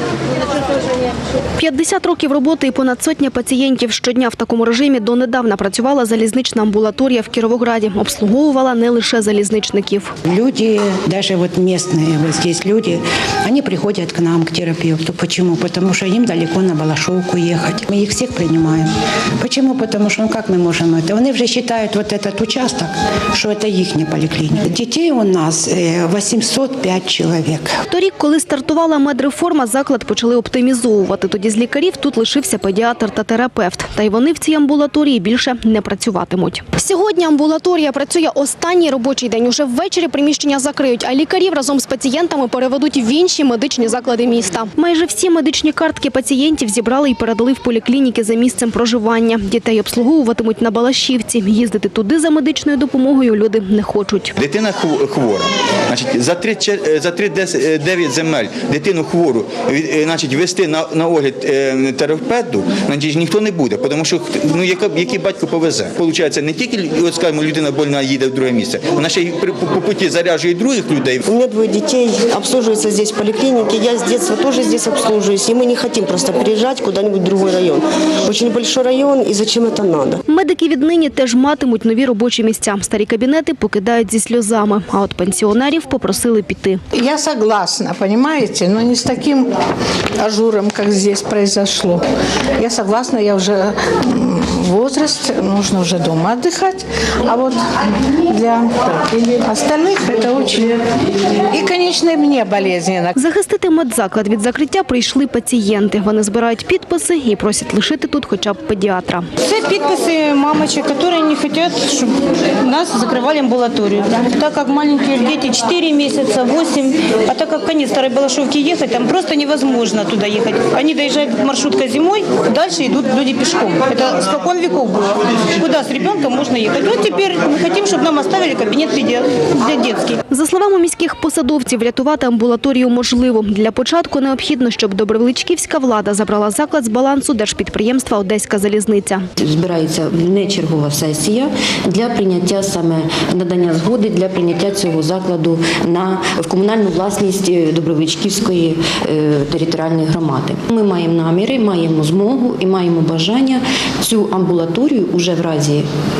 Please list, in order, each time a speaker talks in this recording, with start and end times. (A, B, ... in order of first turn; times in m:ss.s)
0:01.6-0:10.1 A
0:10.3-0:27.8 B
0:27.9-0:54.3 A
0:54.4-1:11.2 C
1:11.2-1:20.2 D
1:20.3-1:26.8 A
1:26.9-1:29.4 E
1:30.2-1:32.0 E
1:32.6-1:37.6 E
1:38.3-1:40.8 E
1:41.5-1:43.1 E
1:43.2-1:49.2 A
1:49.4-2:10.2 F
2:10.3-2:19.2 A
2:19.4-2:35.8 G